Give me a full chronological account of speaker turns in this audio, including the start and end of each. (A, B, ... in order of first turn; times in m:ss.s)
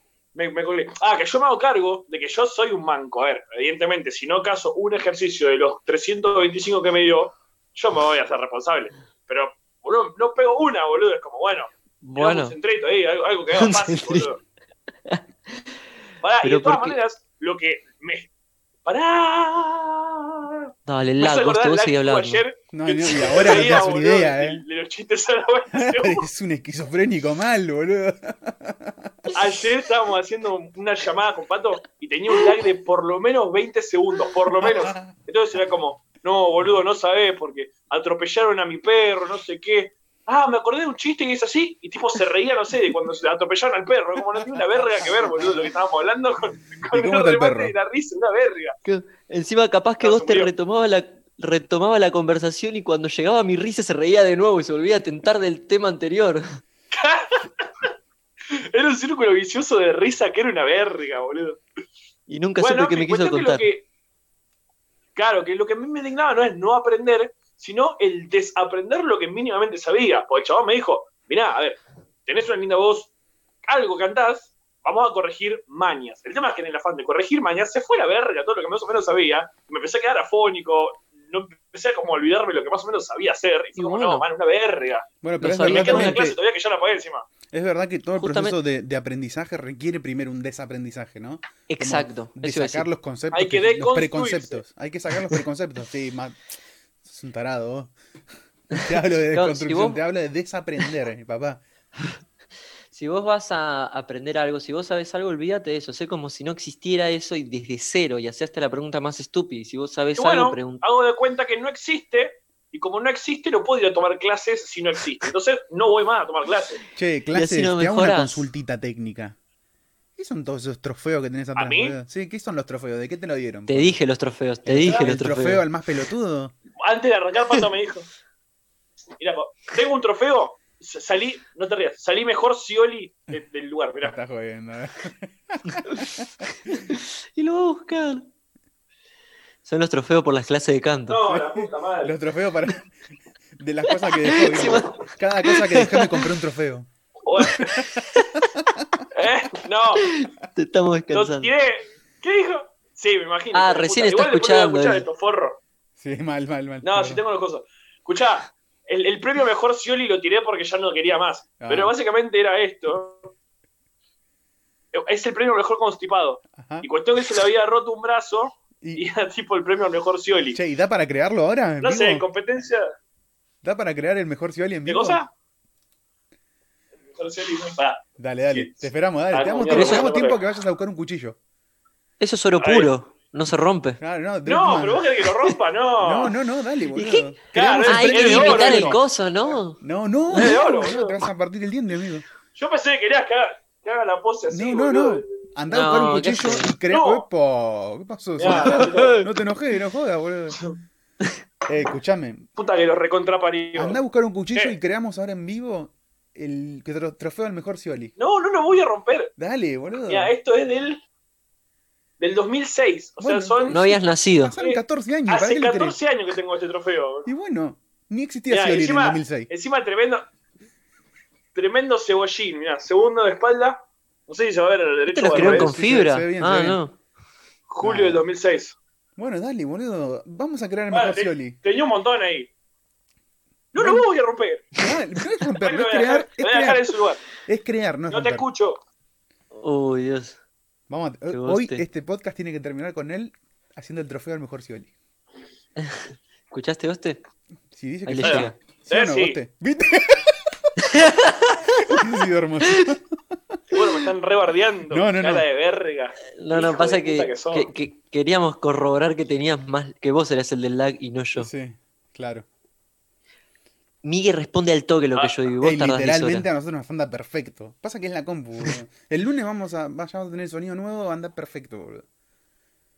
0:00.4-0:14.4 A
0:12.0-0:12.6 B
0:13.6-0:14.3 B
0:16.2-0:18.3 A
0:16.4-0:17.0 B
0:18.9-0:20.7 A
0:20.9-0:22.4 B
0:21.2-0:26.3 A
0:22.7-0:24.6 C
0:25.7-0:29.3 C
0:29.3-0:48.8 A
0:34.6-0:35.1 C
0:46.9-0:47.7 C
0:48.9-0:56.4 B
0:50.0-0:50.5 A
0:56.9-0:57.7 A
0:58.5-1:01.6 A
1:02.3-1:03.7 B
1:02.6-1:03.9 A
1:05.2-1:13.1 A
1:13.7-1:25.1 A
1:23.8-1:24.3 B
1:25.2-1:26.4 C
1:25.4-1:26.2 B
1:25.6-1:27.3 A
1:27.5-1:36.4 C
1:28.2-1:28.6 B
1:31.7-1:32.9 B
1:33.3-1:34.6 A
1:37.0-1:37.9 C
1:38.7-1:41.6 C
1:38.8-1:40.0 B
1:42.9-1:50.8 B
1:50.2-1:56.8 A
1:57.0-1:59.4 C
1:57.3-1:58.5 B
2:00.2-2:04.0 C
2:01.6-2:02.0 A
2:03.7-2:05.6 B
2:04.6-2:06.5 C
2:04.8-2:05.1 A
2:06.8-2:08.1 A
2:09.2-2:14.1 A
2:14.0-2:16.3 C
2:16.7-2:18.3 B
2:19.6-2:21.2 B
2:21.1-2:22.1 A
2:21.3-2:23.0 C
2:23.6-2:29.0 C
2:23.9-2:26.3 B
2:27.3-2:27.9 A
2:29.1-2:30.1 A
2:30.0-2:31.5 B
2:31.1-2:35.6 A
2:33.5-2:35.1 B
2:36.0-2:37.2 C
2:36.8-2:43.3 A
2:41.6-2:41.9 C
2:44.9-2:50.6 A
2:46.6-2:46.9 C
2:50.5-2:52.3 C
2:51.8-2:52.9 A
2:53.6-2:55.2 C
2:54.9-2:55.3 A
2:57.2-3:00.4 A
2:58.2-3:01.4 C
2:59.7-3:00.1 B
3:02.2-3:04.0 B
3:02.6-3:02.9 A
3:04.0-3:05.2 C
3:04.4-3:06.4 A
3:06.0-3:09.0 C
3:07.0-3:07.3 B
3:07.5-3:09.0 A
3:07.9-3:09.8 B
3:09.8-3:12.3 C
3:10.3-3:11.2 A
3:12.6-3:15.2 A
3:14.5-3:20.6 C
3:15.7-3:16.7 B
3:16.0-3:17.3 A
3:18.4-3:19.3 A
3:18.5-3:19.2 B
3:21.7-3:22.5 C
3:22.6-3:24.0 A
3:23.8-3:28.1 C
3:28.2-3:29.3 A
3:29.4-3:30.3 C
3:30.1-3:31.0 A
3:32.2-3:34.0 A
3:33.2-3:36.0 C
3:33.7-3:34.6 B
3:34.6-3:37.3 A
3:37.2-3:39.5 C
3:38.5-3:40.2 A
3:41.6-3:45.8 A
3:45.1-3:47.0 B
3:45.3-3:46.8 C
3:47.7-3:48.8 A
3:47.8-3:48.2 C
3:49.2-3:51.6 C
3:50.9-3:52.5 A
3:53.7-3:54.8 A
3:53.8-3:54.1 C
3:54.8-3:56.9 C
3:55.6-3:57.2 A
3:57.4-3:58.4 C
3:58.1-3:58.8 A
3:59.5-4:00.4 B
4:00.9-4:04.9 C
4:01.3-4:01.8 B
4:06.5-4:07.2 B
4:07.7-4:10.6 C
4:08.1-4:08.6 B
4:08.2-4:09.4 A
4:10.9-4:11.9 B
4:11.8-4:13.0 C
4:13.7-4:17.7 A
4:14.9-4:15.4 C
4:16.3-4:21.5 B
4:21.4-4:22.4 C
4:24.0-4:26.5 B
4:25.6-4:32.0 C